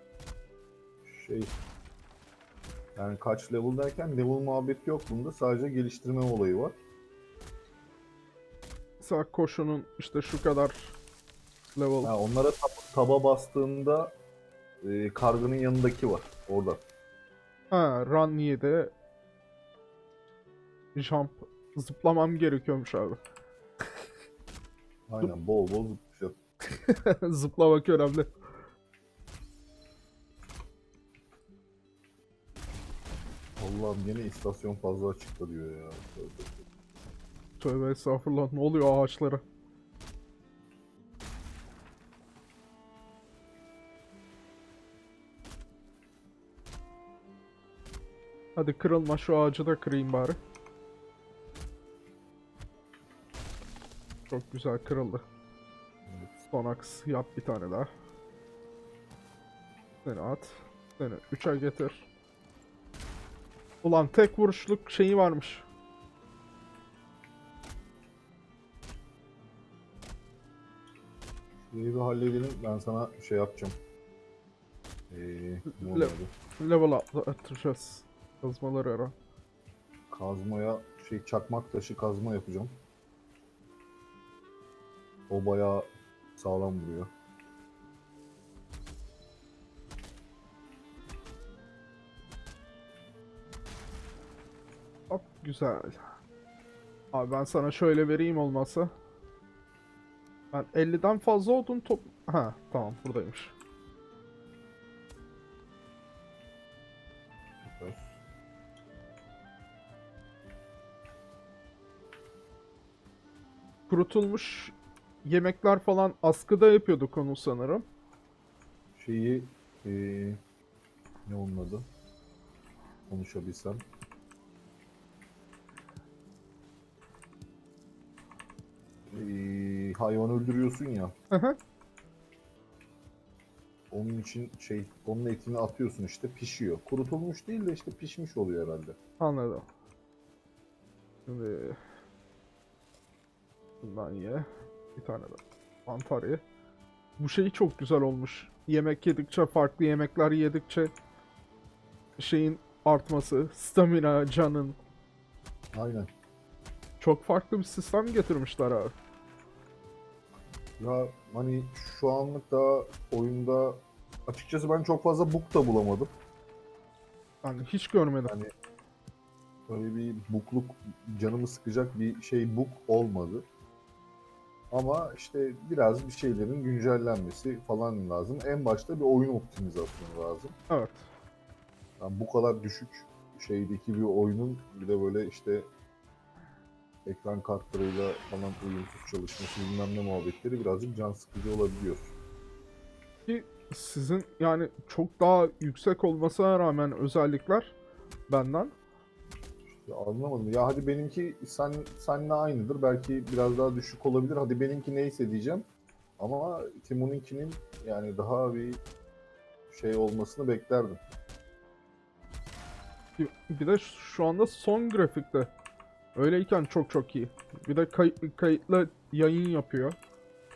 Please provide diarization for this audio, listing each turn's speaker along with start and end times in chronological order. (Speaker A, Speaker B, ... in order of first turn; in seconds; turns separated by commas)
Speaker A: 1.0-1.5, Speaker A: 3.0-6.7, Speaker B: 9.0-10.9, Speaker B: 11.7-12.1, Speaker A: 12.0-14.1, Speaker A: 14.8-16.8, Speaker B: 17.7-18.9, Speaker B: 20.9-23.2, Speaker A: 25.1-26.3, Speaker B: 26.7-28.3, Speaker A: 33.6-36.6, Speaker B: 37.6-39.4, Speaker B: 48.5-50.4, Speaker B: 54.3-55.2, Speaker A: 56.1-56.4, Speaker B: 56.5-57.9, Speaker B: 60.0-62.1, Speaker B: 63.8-65.7, Speaker A: 71.7-73.7, Speaker A: 75.1-76.3, Speaker B: 75.7-79.1, Speaker A: 80.1-82.7, Speaker A: 85.3-87.1, Speaker B: 95.1-96.0, Speaker B: 97.1-98.9, Speaker B: 100.5-103.5, Speaker A: 107.6-108.1, Speaker B: 113.9-117.8, Speaker A: 119.0-120.4, Speaker A: 121.2-121.8, Speaker A: 123.1-123.8, Speaker A: 129.1-131.1, Speaker B: 131.3-131.6, Speaker A: 133.9-138.9, Speaker B: 139.2-139.7, Speaker B: 141.3-141.8, Speaker B: 143.8-146.4, Speaker B: 147.2-150.9, Speaker B: 152.2-154.8, Speaker A: 155.7-156.1, Speaker B: 157.0-158.9, Speaker A: 160.8-166.1, Speaker B: 167.4-168.3, Speaker A: 169.7-173.4, Speaker A: 174.7-180.6, Speaker B: 180.7-181.1, Speaker A: 182.0-185.7, Speaker A: 187.1-192.2, Speaker B: 193.3-197.7, Speaker B: 198.3-198.7, Speaker A: 199.7-205.6, Speaker A: 206.2-208.8, Speaker A: 209.7-211.0, Speaker B: 213.2-215.5, Speaker B: 216.2-220.0